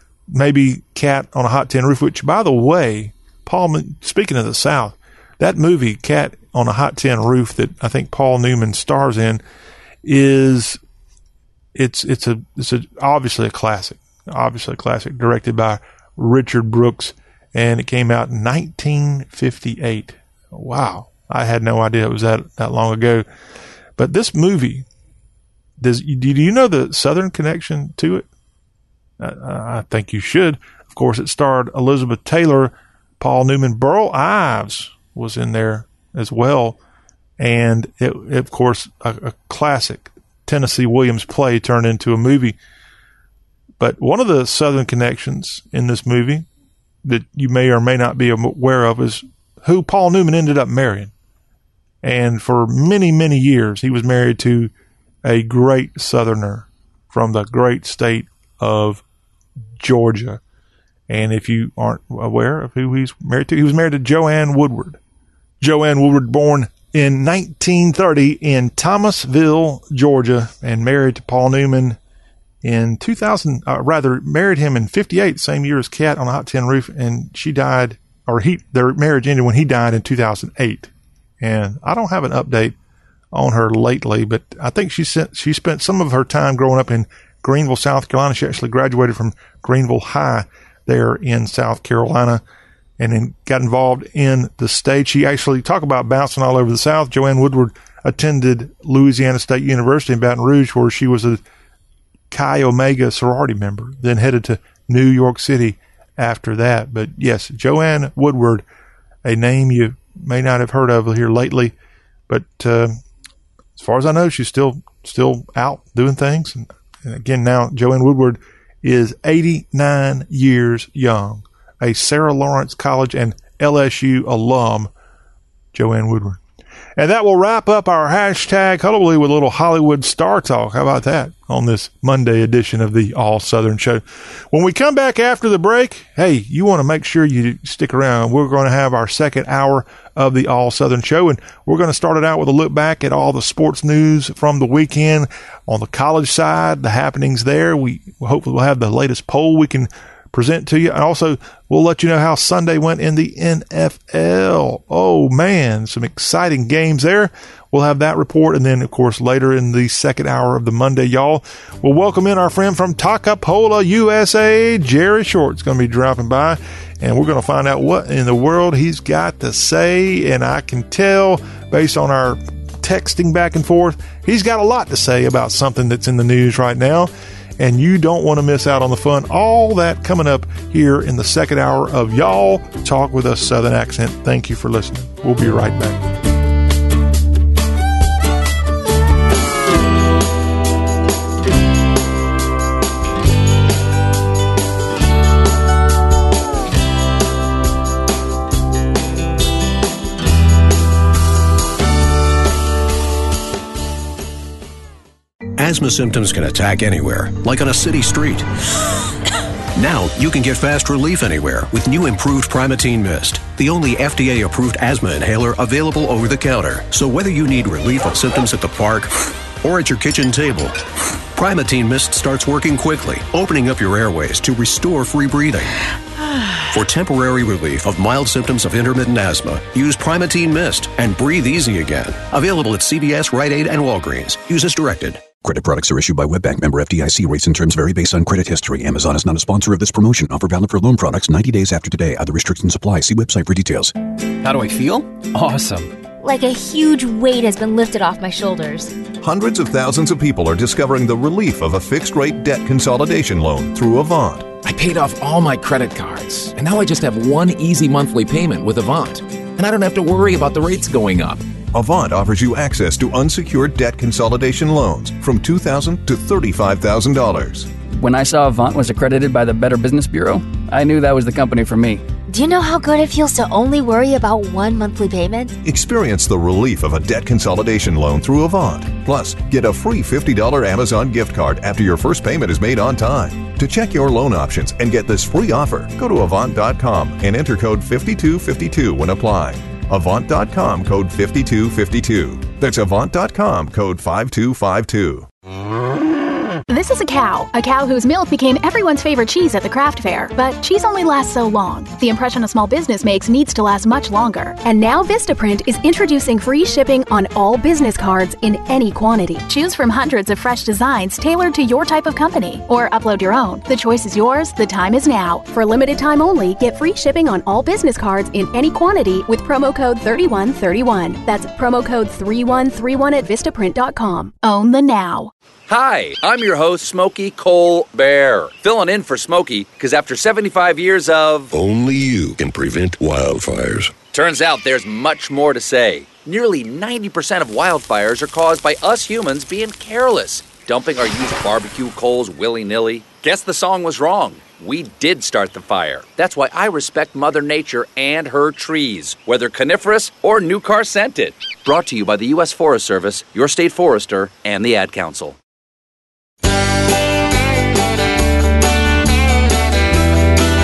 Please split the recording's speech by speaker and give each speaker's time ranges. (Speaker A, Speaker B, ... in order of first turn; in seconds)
Speaker A: 0.3-9.4, 10.0-10.8, 11.7-23.2, 24.0-24.8, 25.8-28.2, 29.2-36.8, 37.4-42.5, 43.8-46.5, 47.0-51.1, 52.0-54.7, 55.2-59.0, 59.8-60.4, 61.1-65.0, 65.6-72.0, 72.6-80.9, 81.4-82.8, 83.3-92.4, 93.0-101.4, 102.3-108.6, 109.2-111.7, 112.3-113.0, 113.8-124.9, 125.7-126.4, 127.0-186.0
Speaker B: 205.6-208.5, 209.7-220.8, 221.3-225.8, 226.7-235.3
Speaker C: 235.4-243.9
Speaker D: 244.4-245.1, 254.6-261.4
Speaker E: 246.2-248.9, 272.3-275.6
Speaker F: 249.2-254.5, 261.7-267.7, 275.6-295.3
Speaker G: 268.0-272.0
Speaker H: 296.7-325.3
Speaker I: 325.7-331.5, 334.1-355.4
Speaker J: 331.6-333.9